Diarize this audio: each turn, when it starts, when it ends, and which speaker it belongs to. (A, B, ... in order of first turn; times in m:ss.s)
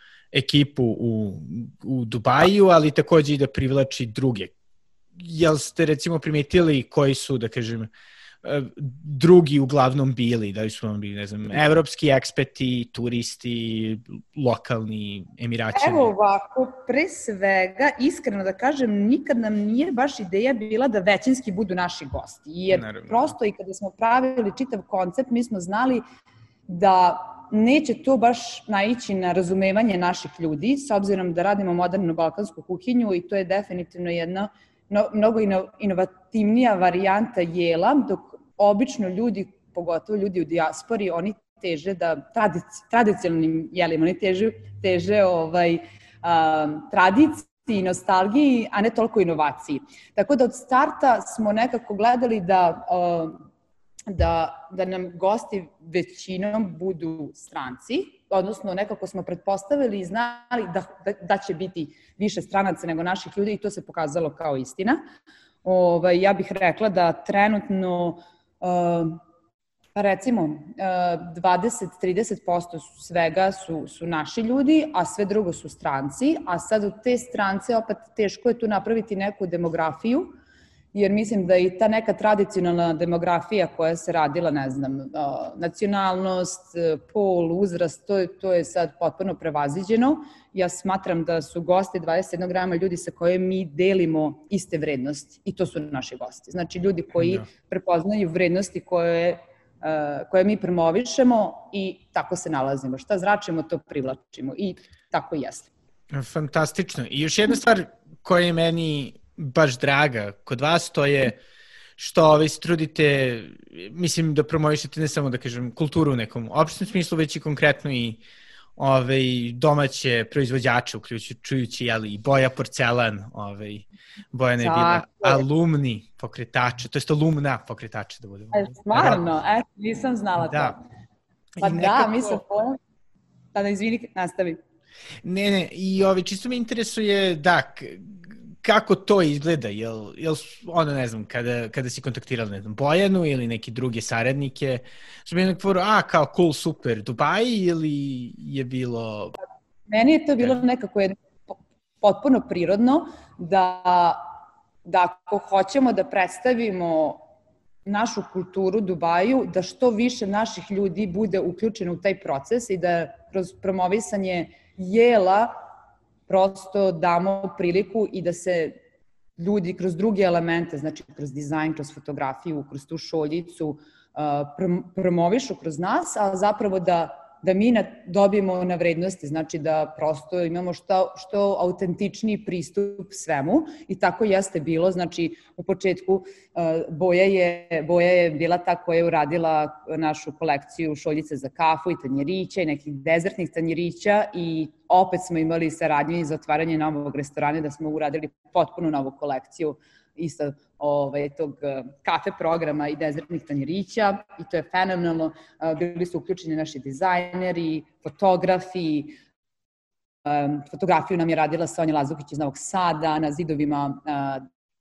0:00.3-0:04.5 A
0:05.2-0:07.9 A
0:08.4-0:16.1 A
0:15.7-0:26.0 B
0:22.7-0:23.3 A
0:26.7-0:53.4 B
0:54.1-1:05.0 B
1:05.6-1:09.2 B
1:09.9-1:20.3 B
1:20.9-1:45.7 B
1:37.2-1:37.4 A
1:46.1-1:51.4 A
1:52.0-1:58.2 A
1:58.8-2:09.2 A
2:04.6-2:05.4 B
2:08.5-2:10.8 B
2:10.4-2:10.8 A
2:11.6-2:12.4 A
2:11.6-2:12.8 B
2:13.5-2:14.6 B
2:15.2-2:29.4 A
2:29.9-2:31.2 B
2:32.0-2:34.2 B
2:34.8-2:37.2 B
2:37.8-2:45.5 B
2:46.3-2:48.7 B
2:49.4-3:29.2 B
3:30.2-3:34.5 B